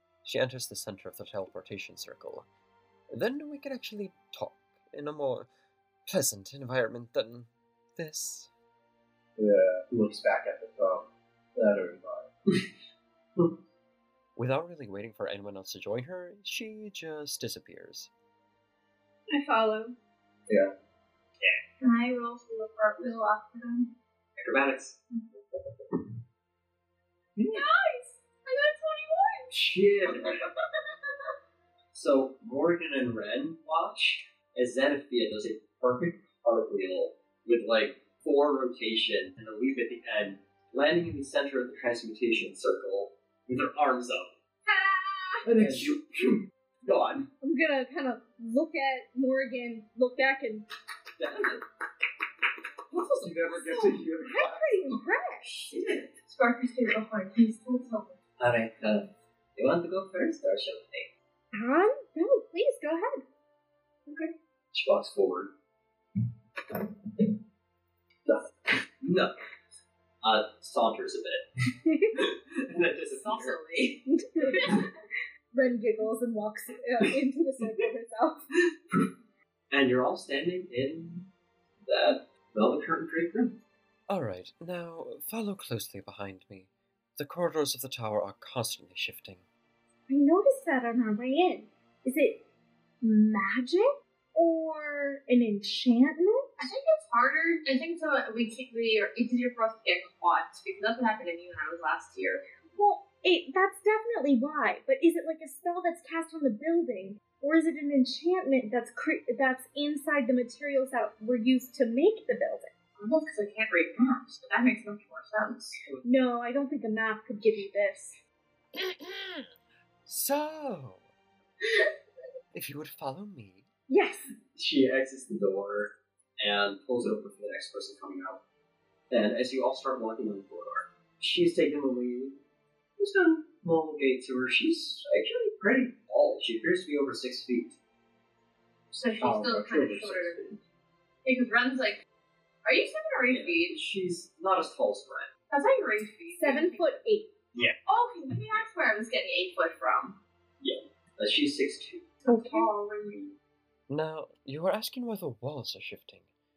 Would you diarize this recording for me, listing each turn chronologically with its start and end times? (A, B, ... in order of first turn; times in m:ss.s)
0:00.2-0:02.5 A
0:03.1-0:05.5 A
0:06.1-0:08.5 A
0:09.4-0:12.3 B
0:14.4-0:18.1 A
0:19.4-0:19.9 C
0:21.8-0:23.9 C
0:24.4-0:25.0 D
0:27.4-0:27.6 B
0:27.5-0:29.5 C
0:29.5-0:30.4 D
0:31.9-0:44.3 D
0:44.7-0:45.0 C
0:45.4-0:45.9 B
0:45.4-0:47.3 D
0:47.4-0:50.7 E
0:51.2-0:51.6 D
0:52.9-0:54.8 B
0:54.3-0:55.7 E
0:55.7-0:58.2 C
0:58.4-1:01.1 D
1:01.5-1:03.2 E
1:04.1-1:05.5 D
1:08.3-1:09.4 D
1:10.2-1:11.5 D
1:12.1-1:13.6 D
1:13.1-1:14.0 C
1:14.1-1:14.9 E
1:15.5-1:18.4 E
1:19.7-1:21.3 D
1:21.8-1:23.6 D
1:24.1-1:29.4 A
1:30.1-1:32.4 E
1:33.0-1:36.5 E
1:36.6-1:42.4 C
1:42.8-1:52.7 E
1:53.0-1:55.8 C
1:55.8-1:56.1 D
1:56.0-1:58.2 E
1:58.8-1:59.5 A
2:00.1-2:01.1 A
2:02.5-2:03.7 A
2:03.9-2:04.3 E
2:04.5-2:08.4 D
2:09.1-2:12.4 D
2:13.0-2:17.7 D
2:18.9-2:20.5 C
2:19.2-2:20.6 B
2:21.2-2:22.0 C
2:22.6-2:23.8 C
2:23.3-2:25.3 D
2:25.5-2:27.0 C
2:26.4-2:27.3 E
2:27.9-2:30.2 C
2:30.6-2:32.1 D
2:32.3-2:32.7 E
2:32.4-2:33.4 C
2:33.9-2:36.3 A